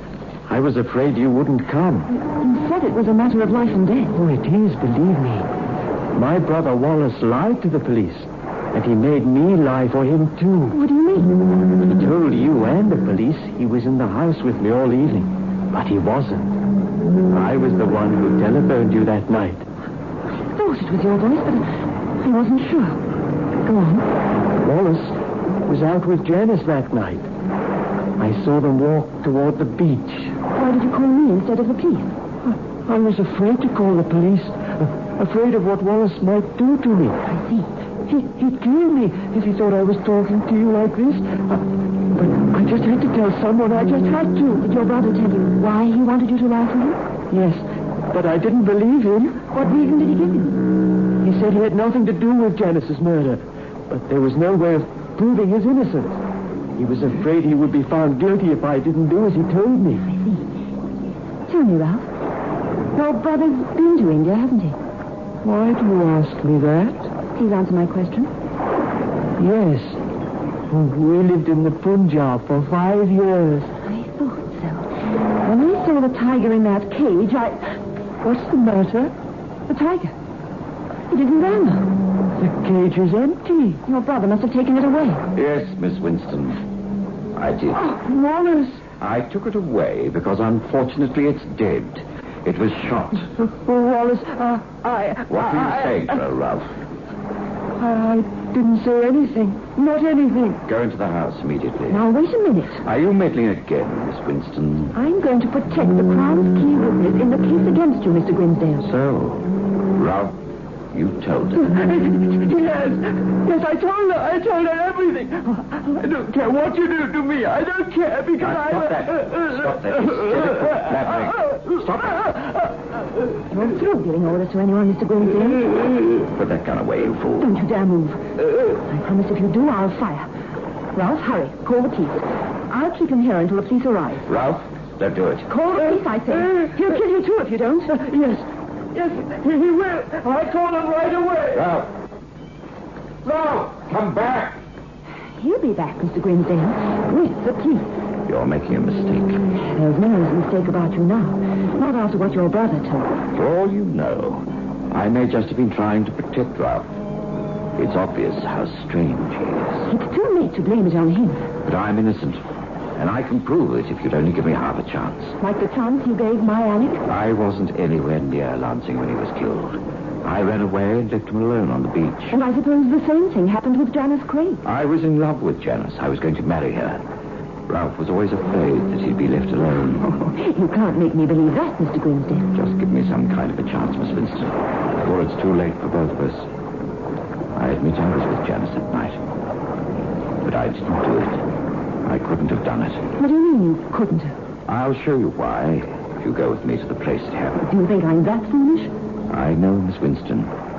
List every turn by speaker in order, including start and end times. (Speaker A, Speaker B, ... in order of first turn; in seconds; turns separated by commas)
Speaker A: 0.5-2.1, Speaker B: 2.2-4.1, Speaker A: 4.1-5.5, Speaker A: 6.1-10.8, Speaker B: 10.7-11.4, Speaker A: 11.8-16.5, Speaker A: 17.3-19.6, Speaker B: 20.5-21.7, Speaker B: 22.2-23.0, Speaker B: 23.6-24.0, Speaker A: 24.6-27.3, Speaker A: 28.2-30.3, Speaker B: 30.5-32.1, Speaker A: 32.5-37.2, Speaker B: 37.2-37.7, Speaker A: 38.1-44.5, Speaker B: 44.4-47.0, Speaker A: 47.3-49.5, Speaker B: 49.5-50.6, Speaker A: 51.2-56.2, Speaker A: 56.8-60.1, Speaker B: 60.1-60.4, Speaker B: 61.5-62.1, Speaker B: 62.9-64.8, Speaker A: 65.4-67.1, Speaker B: 67.3-68.3, Speaker A: 69.4-70.0, Speaker A: 70.7-73.7, Speaker B: 73.8-74.9, Speaker B: 75.4-77.6, Speaker A: 78.2-79.1, Speaker B: 79.7-80.1, Speaker B: 81.1-81.9, Speaker A: 82.4-83.8, Speaker B: 83.8-85.2, Speaker C: 85.3-86.6, Speaker C: 87.3-87.9, Speaker A: 87.7-88.8, Speaker C: 89.0-93.3, Speaker A: 93.5-96.1, Speaker C: 95.3-96.8, Speaker A: 97.8-100.6, Speaker C: 100.6-102.0, Speaker B: 101.9-102.8, Speaker C: 102.8-105.0, Speaker B: 104.9-108.9, Speaker C: 108.8-110.4, Speaker C: 110.9-111.8, Speaker A: 111.7-122.5, Speaker C: 118.4-122.3, Speaker B: 123.5-125.7, Speaker C: 126.3-127.5, Speaker B: 127.4-128.2, Speaker B: 128.8-130.3, Speaker B: 130.9-134.3, Speaker C: 134.3-135.5, Speaker B: 135.5-138.0, Speaker A: 137.9-141.7, Speaker C: 141.5-141.9, Speaker C: 143.2-144.6, Speaker B: 145.4-147.9, Speaker C: 148.2-149.4, Speaker B: 149.6-153.1, Speaker C: 153.3-156.9, Speaker C: 157.8-159.8, Speaker B: 159.9-161.5, Speaker C: 161.6-162.4, Speaker C: 162.9-165.3, Speaker B: 165.4-167.0, Speaker C: 167.0-172.4, Speaker B: 172.3-174.6, Speaker C: 174.6-177.0, Speaker C: 177.7-180.1, Speaker B: 180.0-182.5, Speaker C: 182.5-186.5, Speaker C: 187.5-189.2, Speaker C: 190.4-191.4, Speaker C: 192.0-193.1, Speaker B: 193.2-194.3, Speaker C: 194.7-197.6, Speaker B: 197.6-198.9, Speaker C: 199.3-200.5